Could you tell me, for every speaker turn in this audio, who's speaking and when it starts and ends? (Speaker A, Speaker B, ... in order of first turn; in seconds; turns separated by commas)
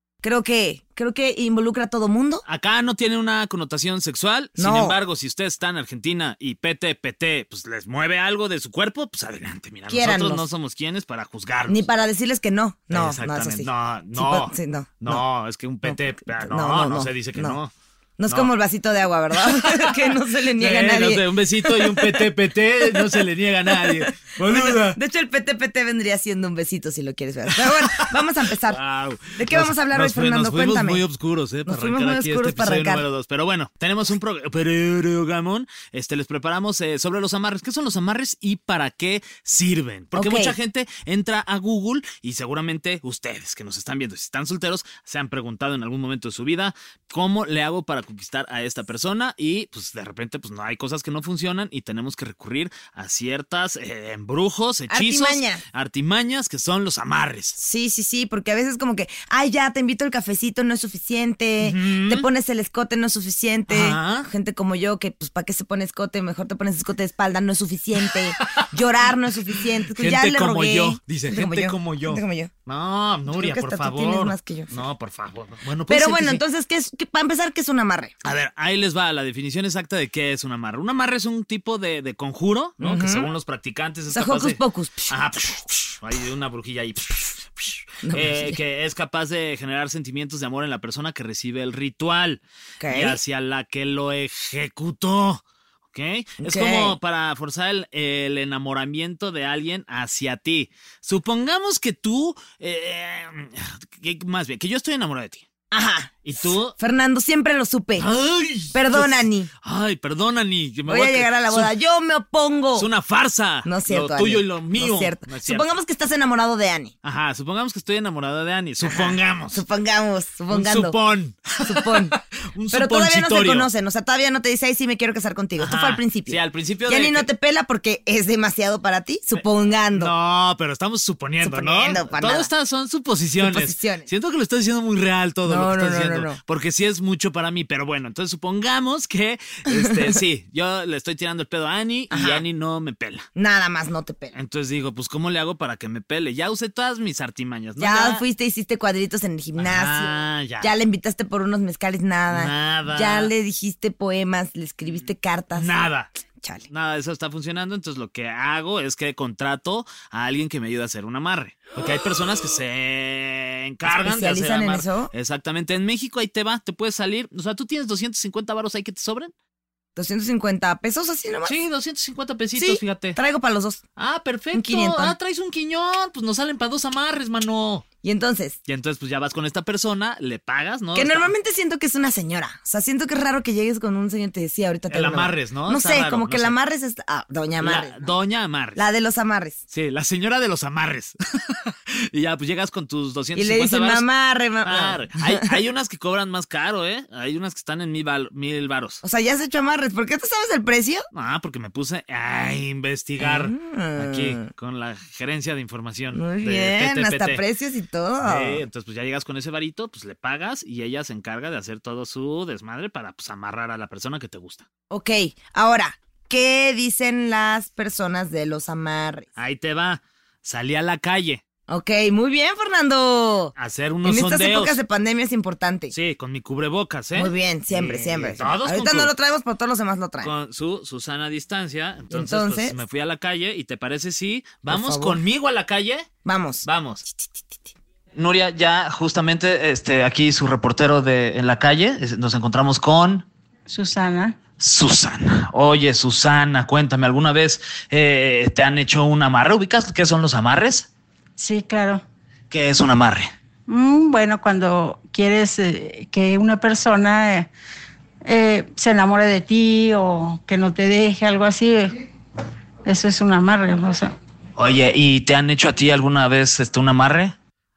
Speaker A: 0.2-2.4, Speaker B: 2.5-11.8, Speaker A: 4.6-5.0, Speaker A: 9.9-10.4, Speaker A: 11.7-15.2, Speaker B: 12.9-17.7, Speaker A: 15.8-17.6, Speaker A: 18.2-22.3, Speaker B: 19.4-25.0, Speaker A: 22.8-28.8, Speaker B: 27.6-57.6, Speaker A: 29.4-31.0, Speaker A: 31.6-33.0, Speaker A: 40.1-40.5, Speaker A: 54.9-55.6, Speaker A: 57.6-72.5, Speaker B: 61.6-62.2, Speaker B: 63.7-64.3, Speaker B: 68.3-68.7, Speaker B: 69.5-76.4, Speaker A: 73.3-74.7, Speaker A: 75.9-78.1, Speaker B: 78.2-84.6, Speaker A: 82.8-83.3, Speaker A: 84.1-85.1, Speaker B: 85.1-95.4, Speaker A: 88.0-88.6, Speaker A: 92.8-93.2, Speaker B: 95.9-105.4, Speaker A: 96.4-97.0, Speaker A: 105.7-108.1, Speaker B: 106.2-106.8, Speaker B: 108.0-111.7, Speaker A: 108.7-109.5, Speaker A: 110.9-112.9, Speaker B: 112.7-115.7, Speaker A: 113.6-116.9, Speaker B: 117.0-119.6, Speaker A: 118.8-120.9, Speaker B: 120.5-123.7, Speaker A: 121.6-122.2, Speaker A: 122.7-130.1, Speaker B: 125.6-127.3, Speaker B: 129.4-143.2, Speaker A: 131.4-132.5, Speaker A: 133.4-134.1, Speaker A: 135.4-136.4, Speaker A: 139.7-139.9, Speaker A: 142.1-142.4, Speaker A: 143.3-144.3, Speaker B: 144.3-148.2, Speaker A: 147.8-155.7, Speaker B: 149.6-150.7, Speaker B: 152.3-153.3, Speaker B: 155.5-156.1, Speaker A: 156.4-156.7, Speaker B: 156.7-169.3, Speaker A: 163.8-165.1, Speaker A: 169.9-171.5, Speaker B: 171.4-173.2, Speaker A: 172.6-173.8, Speaker B: 174.0-177.8, Speaker A: 174.5-175.1, Speaker A: 178.0-178.6, Speaker B: 178.7-181.3, Speaker A: 180.9-188.1, Speaker B: 184.9-186.5, Speaker B: 187.6-188.8, Speaker A: 188.8-189.6, Speaker B: 189.7-194.1, Speaker A: 193.3-195.5, Speaker B: 194.6-199.0, Speaker A: 199.0-201.1, Speaker B: 201.1-207.4, Speaker A: 203.2-204.5, Speaker A: 206.1-208.6, Speaker B: 208.2-214.7, Speaker A: 214.9-219.2, Speaker B: 219.3-221.4, Speaker A: 221.7-223.5, Speaker B: 223.6-224.8, Speaker A: 224.0-225.9, Speaker B: 225.9-229.1, Speaker A: 227.1-230.3, Speaker B: 230.2-236.1, Speaker A: 232.1-232.8, Speaker A: 234.7-235.2, Speaker A: 236.2-237.7, Speaker B: 236.6-237.0, Speaker B: 238.1-243.2, Speaker C: 243.7-244.4, Speaker B: 244.6-250.9, Speaker C: 251.4-252.0, Speaker B: 252.5-253.3, Speaker C: 253.7-257.5, Speaker C: 258.2-261.9, Speaker C: 262.9-264.1, Speaker B: 264.6-267.4